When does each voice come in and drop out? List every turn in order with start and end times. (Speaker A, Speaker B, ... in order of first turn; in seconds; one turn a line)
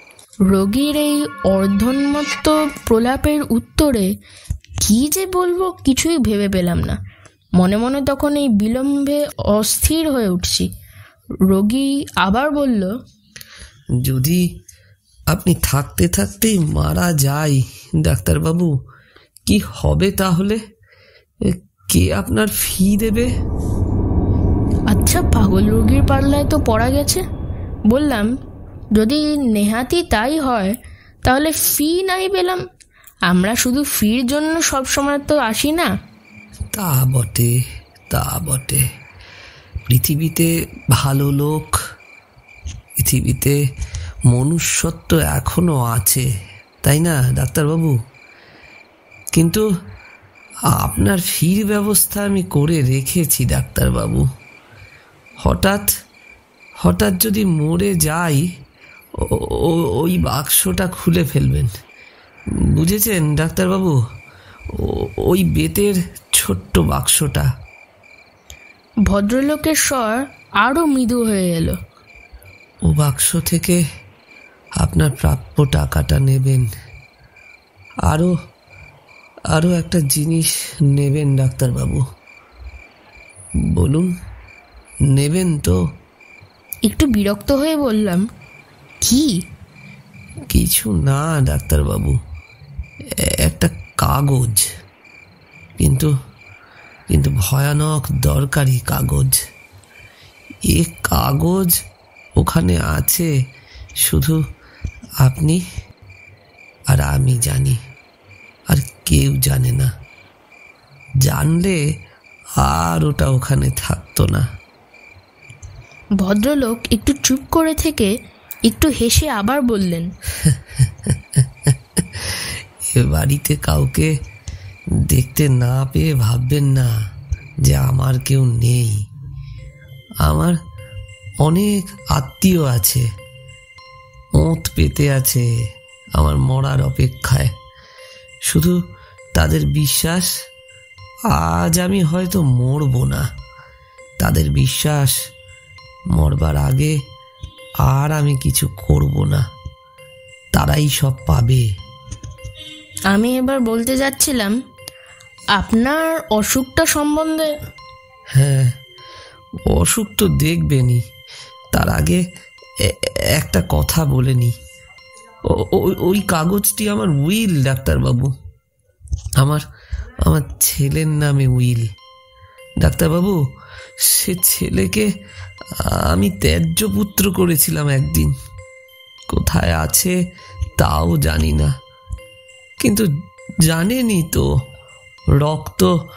Speaker A: 0.5-4.1
Speaker A: 4.8-7.0
Speaker A: 7.6-10.7
Speaker A: 11.5-12.9
Speaker B: 14.0-14.4
Speaker B: 15.3-18.7
Speaker B: 19.5-20.6
Speaker B: 21.4-23.3
Speaker A: 24.9-27.2
Speaker A: 27.9-28.3
Speaker A: 28.9-30.7
Speaker A: 31.2-32.6
Speaker A: 33.3-35.9
Speaker B: 36.7-37.5
Speaker B: 38.1-38.8
Speaker B: 39.9-41.8
Speaker B: 43.0-43.6
Speaker B: 44.3-46.2
Speaker B: 46.8-47.9
Speaker B: 49.3-49.6
Speaker B: 50.8-54.2
Speaker B: 55.4-55.9
Speaker B: 56.8-58.4
Speaker B: 59.2-61.7
Speaker B: 62.7-64.0
Speaker B: 64.7-67.5
Speaker A: 69.1-71.8
Speaker B: 72.8-73.8
Speaker B: 74.8-76.7
Speaker B: 78.1-78.3
Speaker B: 79.5-82.0
Speaker B: 83.7-84.1
Speaker B: 85.1-85.8
Speaker A: 86.9-88.2
Speaker A: 89.0-89.3
Speaker B: 90.5-92.2
Speaker B: 93.4-94.6
Speaker B: 95.8-96.1
Speaker B: 97.1-99.4
Speaker B: 100.7-101.7
Speaker B: 102.4-103.3
Speaker B: 104.0-104.4
Speaker B: 105.2-105.6
Speaker B: 106.9-107.8
Speaker B: 108.7-109.9
Speaker B: 111.2-111.8
Speaker B: 112.6-114.5
Speaker A: 116.2-118.1
Speaker A: 118.6-120.1
Speaker B: 120.4-124.1
Speaker B: 125.1-126.9
Speaker B: 127.6-129.0
Speaker B: 130.2-130.6
Speaker B: 131.4-133.1
Speaker B: 134.4-135.4
Speaker B: 136.2-137.5
Speaker B: 138.5-138.8
Speaker B: 139.3-140.3
Speaker B: 141.3-143.3
Speaker B: 144.2-145.2
Speaker B: 146.1-146.9
Speaker B: 147.8-149.4
Speaker B: 150.5-151.6
Speaker A: 153.1-154.5
Speaker A: 155.6-157.5
Speaker B: 158.3-158.7
Speaker B: 159.7-161.0
Speaker B: 161.7-162.2
Speaker B: 162.8-164.5
Speaker B: 165.4-168.3
Speaker B: 170.2-171.9
Speaker B: 172.8-173.4
Speaker B: 174.1-175.1
Speaker B: 175.9-178.3
Speaker B: 179.3-180.1
Speaker B: 180.8-181.7
Speaker B: 182.8-183.1
Speaker B: 183.7-184.4
Speaker B: 185.4-185.9